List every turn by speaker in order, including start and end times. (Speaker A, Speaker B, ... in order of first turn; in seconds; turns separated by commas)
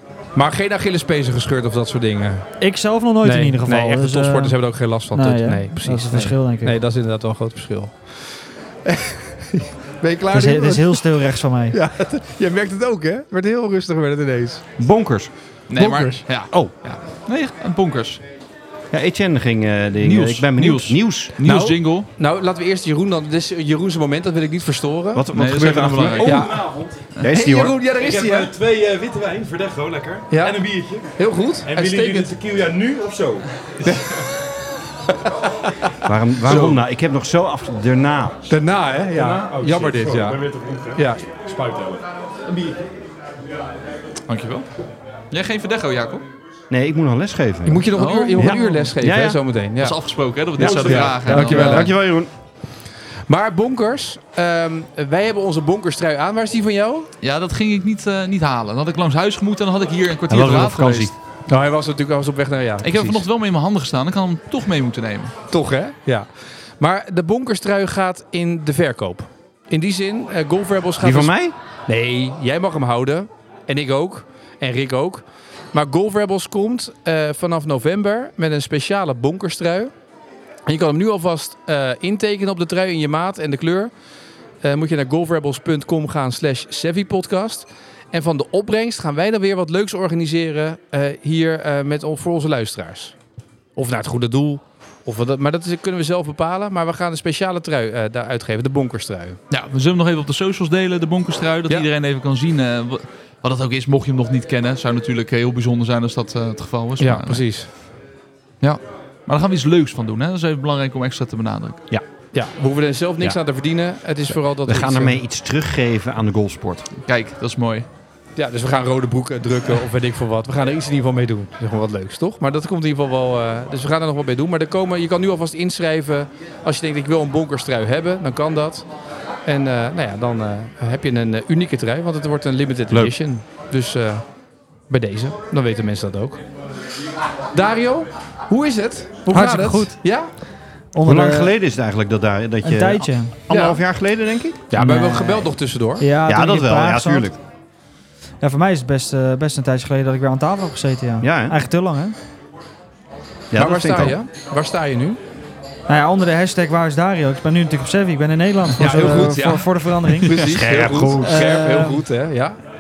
Speaker A: 0.3-2.5, Speaker B: 2.6-4.6, Speaker A: 3.2-11.1, Speaker B: 5.1-6.8, Speaker B: 10.3-11.8, Speaker A: 11.7-14.6, Speaker C: 14.8-15.3, Speaker D: 15.7-18.2, Speaker A: 15.8-16.3, Speaker C: 18.9-21.3, Speaker D: 20.0-22.1, Speaker A: 21.4-25.2, Speaker C: 25.1-30.8, Speaker D: 25.3-26.6, Speaker A: 26.2-26.7, Speaker A: 27.3-28.6, Speaker E: 28.6-31.0, Speaker A: 30.3-32.4, Speaker E: 31.8-33.3, Speaker C: 31.8-33.4, Speaker A: 33.8-34.3, Speaker A: 35.3-36.0, Speaker C: 36.0-38.5, Speaker A: 36.5-36.8, Speaker A: 38.5-41.2, Speaker E: 39.3-42.0, Speaker C: 40.3-40.7, Speaker D: 44.3-44.7, Speaker D: 45.3-46.2, Speaker C: 46.7-49.4, Speaker A: 47.7-50.0, Speaker D: 48.0-48.9, Speaker D: 49.8-51.9, Speaker A: 50.6-51.9, Speaker C: 50.6-52.3, Speaker A: 53.3-57.1, Speaker D: 57.2-61.1, Speaker C: 60.3-61.1, Speaker A: 61.5-63.2, Speaker D: 62.8-65.3, Speaker A: 65.5-71.3, Speaker C: 71.0-71.5, Speaker A: 71.9-79.9, Speaker A: 80.7-83.9, Speaker A: 84.6-93.2, Speaker A: 93.8-99.4, Speaker D: 99.5-107.4, Speaker A: 107.0-107.7, Speaker D: 108.6-111.8, Speaker A: 112.3-115.2, Speaker C: 114.7-116.9, Speaker D: 117.1-117.9, Speaker A: 118.4-128.9, Speaker A: 129.5-134.3, Speaker A: 134.9-136.4, Speaker A: 137.5-140.3, Speaker B: 139.3-140.0, Speaker B: 140.9-141.5, Speaker C: 141.0-144.7, Speaker B: 142.6-143.3, Speaker A: 143.5-143.8, Speaker A: 144.7-146.1, Speaker B: 144.8-147.3, Speaker C: 146.3-147.4, Speaker B: 148.4-152.2, Speaker C: 151.2-151.6, Speaker C: 153.5-154.2, Speaker A: 153.6-155.2, Speaker B: 155.9-160.4, Speaker A: 158.8-162.6, Speaker C: 160.3-161.5, Speaker B: 161.2-162.0